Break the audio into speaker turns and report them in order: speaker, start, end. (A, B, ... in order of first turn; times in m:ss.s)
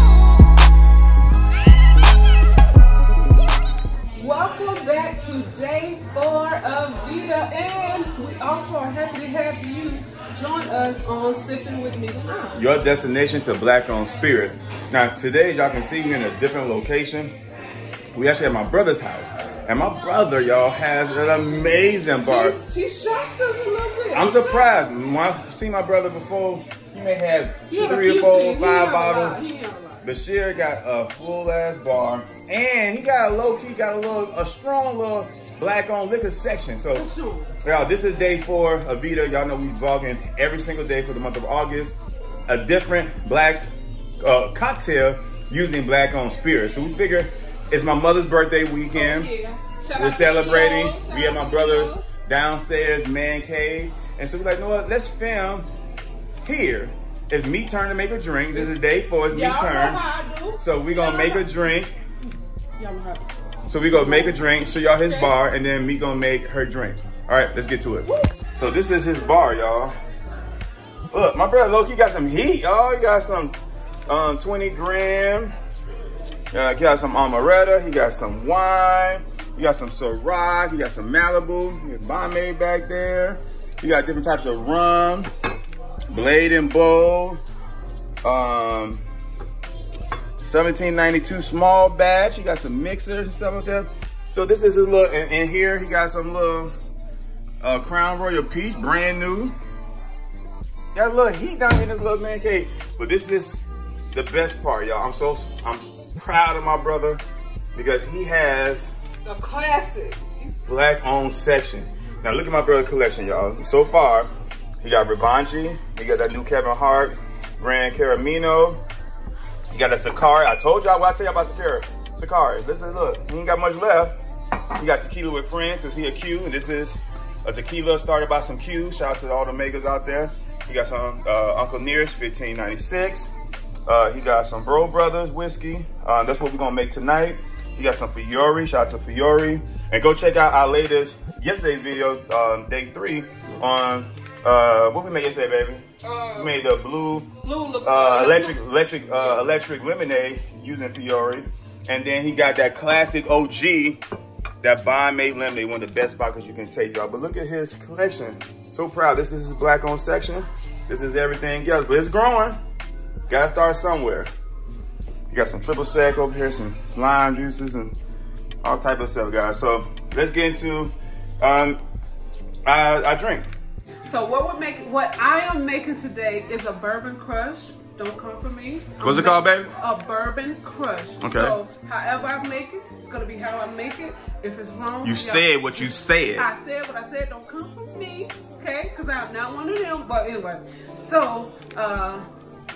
0:04.1-0:12.6 A
0:12.6-0:17.4 B
0:18.1-0:22.6 B
0:22.2-0:24.8 A
0:24.1-0:29.4 B
0:27.7-0:30.1 A
0:30.0-0:37.1 B
0:37.0-0:37.5 A
0:37.6-0:42.0 B
0:42.5-0:43.6 B
0:44.2-0:49.3 B
0:48.9-0:52.1 A
0:50.0-0:55.7 B
0:56.4-1:00.0 B
0:59.3-1:01.5 A
1:00.6-1:01.9 B
1:02.8-1:03.3 A
1:03.7-1:10.0 B
1:03.9-1:04.4 A
1:05.0-1:05.4 A
1:11.1-1:13.6 B
1:14.1-1:15.5 B
1:16.5-1:25.3 B
1:26.1-1:27.4 B
1:28.2-1:29.0 B
1:30.4-1:36.7 B
1:37.6-1:39.6 B
1:40.9-1:47.2 B
1:47.8-1:48.9 B
1:49.2-1:50.6 A
1:50.7-1:54.3 B
1:54.8-1:58.8 B
1:59.7-2:04.2 B
2:04.8-2:13.3 B
2:13.9-2:27.3 B
2:26.0-2:26.6 A
2:27.4-2:28.6 A
2:27.8-2:34.0 B
2:29.2-2:29.4 A
2:34.6-2:42.6 B
2:43.3-2:44.3 B
2:45.3-2:48.0 B
2:48.6-2:51.8 B
2:52.6-2:53.5 B
2:54.1-3:12.2 A
2:59.0-2:59.7 B
3:01.2-3:01.6 B
3:05.0-3:06.5 B